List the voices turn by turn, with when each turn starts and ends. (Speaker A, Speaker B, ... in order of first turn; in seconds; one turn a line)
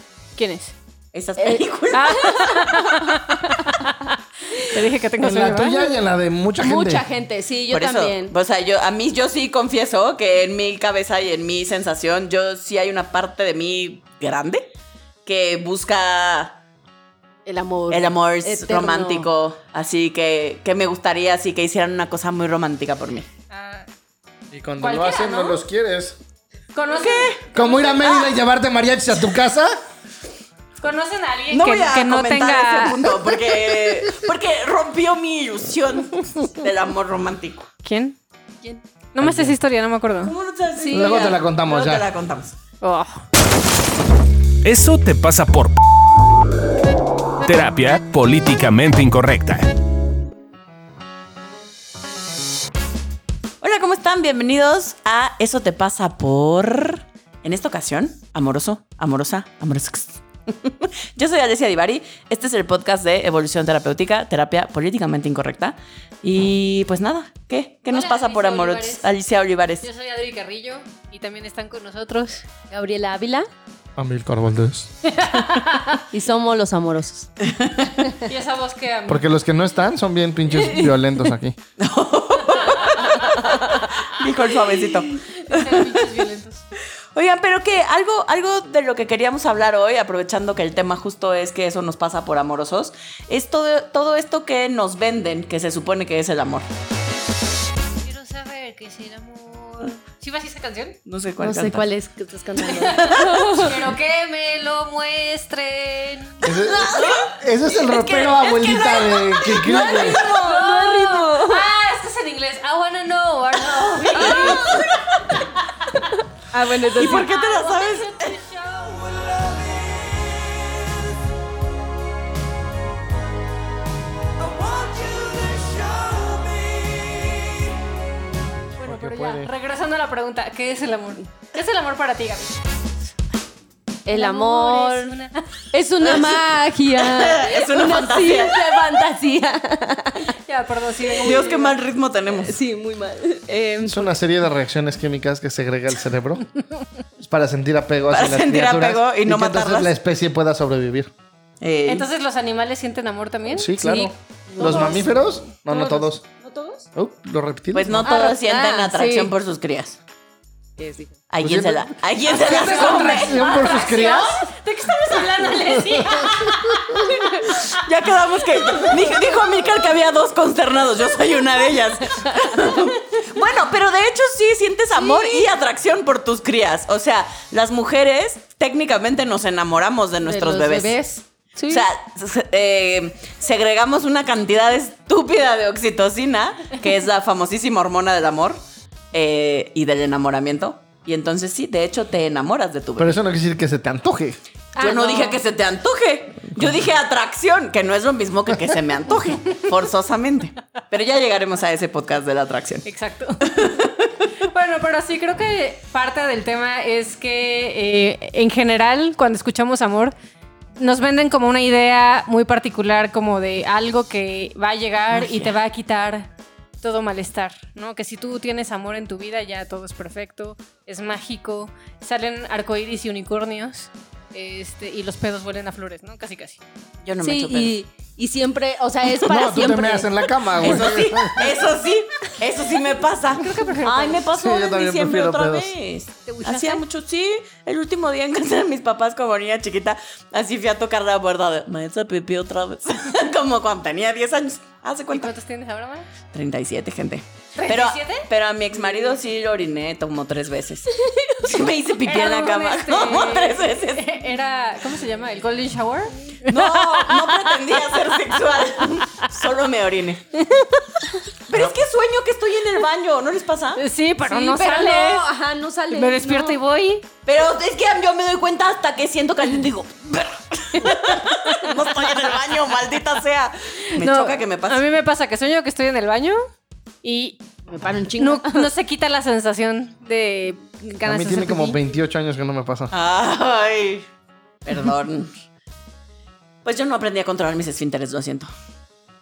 Speaker A: 0.4-0.7
Speaker B: 1.1-2.6
Speaker C: 1.4-1.6
Speaker A: 1.9-5.9
Speaker C: 2.2-2.9
Speaker D: 5.2-7.0
Speaker C: 6.6-8.3
Speaker B: 7.7-14.7
Speaker B: 15.2-16.6
Speaker C: 17.4-19.3
Speaker B: 17.9-23.3
Speaker A: 23.5-23.9
Speaker D: 24.5-26.2
Speaker A: 24.8-25.6
Speaker A: 26.7-28.1
Speaker B: 26.9-27.4
Speaker D: 27.5-29.7
Speaker B: 28.0-28.3
Speaker A: 30.8-33.1
Speaker B: 31.5-37.7
Speaker A: 37.8-38.2
Speaker A: 39.1-40.3
Speaker D: 39.2-39.5
Speaker B: 40.2-42.5
Speaker C: 40.8-41.3
Speaker D: 40.9-42.1
Speaker A: 42.8-43.2
Speaker E: 44.6-45.8
Speaker E: 47.4-49.7
Speaker B: 53.6-69.8
Speaker A: 67.9-69.1
Speaker A: 69.8-72.5
Speaker C: 72.7-73.5
Speaker D: 74.0-74.9
Speaker A: 75.0-76.0
Speaker C: 76.1-77.3
Speaker B: 77.4-77.9
Speaker A: 78.2-79.3
Speaker D: 79.1-81.5
Speaker C: 80.6-80.9
Speaker B: 81.8-86.2
Speaker C: 83.4-83.7
Speaker A: 85.4-86.6
Speaker B: 87.1-96.7
Speaker A: 98.0-101.0
Speaker B: 101.0-101.9
Speaker C: 101.4-103.8
Speaker B: 102.8-103.5
Speaker A: 102.9-107.1
Speaker D: 106.4-110.2
Speaker C: 106.7-107.3
Speaker C: 107.8-111.7
Speaker A: 109.5-115.9
Speaker C: 114.1-114.9
Speaker B: 114.2-114.8
Speaker C: 116.5-117.3
Speaker B: 116.9-118.4
Speaker A: 116.9-119.4
Speaker B: 124.6-127.1
Speaker A: 128.8-132.6
Speaker D: 128.8-129.5
Speaker C: 134.0-135.2
Speaker A: 134.1-135.4
Speaker C: 135.7-140.3
Speaker B: 136.0-138.6
Speaker A: 140.4-141.7
Speaker C: 141.2-141.6
Speaker B: 141.2-142.6
Speaker C: 142.3-144.1
Speaker D: 143.8-146.4
Speaker D: 147.2-151.1
Speaker B: 148.1-149.9
Speaker B: 151.6-152.1
Speaker A: 151.8-155.1
Speaker D: 153.5-156.2
Speaker C: 154.6-155.1
Speaker A: 155.7-156.1
Speaker C: 156.4-156.8
Speaker D: 156.9-158.2
Speaker B: 157.7-160.0
Speaker C: 158.0-159.3
Speaker C: 160.8-161.2
Speaker B: 161.3-163.4
Speaker D: 161.4-164.4
Speaker A: 162.3-167.6
Speaker D: 165.7-167.0
Speaker B: 167.4-181.0
Speaker C: 174.9-175.5
Speaker C: 180.2-181.8
Speaker B: 181.7-188.6
Speaker B: 189.1-193.2
Speaker D: 193.0-194.4
Speaker A: 194.8-195.4
Speaker B: 194.8-202.8
Speaker A: 202.8-203.8
Speaker B: 203.4-204.1
Speaker A: 204.5-210.1
Speaker A: 210.8-226.6
Speaker B: 215.1-215.5
Speaker B: 227.0-227.7
Speaker C: 227.2-230.9
Speaker D: 229.1-231.4
Speaker B: 230.6-245.3
Speaker A: 233.3-234.2
Speaker D: 234.3-235.7
Speaker C: 236.3-236.8
Speaker A: 245.1-246.1
Speaker B: 246.3-254.1
Speaker A: 247.6-248.3
Speaker C: 251.0-251.3
Speaker A: 252.1-257.5
Speaker B: 256.4-260.2
Speaker A: 260.4-260.8
Speaker B: 261.5-263.8
Speaker A: 263.8-265.2
Speaker C: 264.2-266.6
Speaker A: 265.9-267.1
Speaker B: 267.2-274.8
Speaker A: 273.9-276.4
Speaker A: 277.0-277.4
Speaker C: 277.7-278.7
Speaker A: 278.2-281.8
Speaker D: 281.0-282.9
Speaker B: 282.9-284.1
Speaker B: 284.6-285.4
Speaker B: 286.6-288.5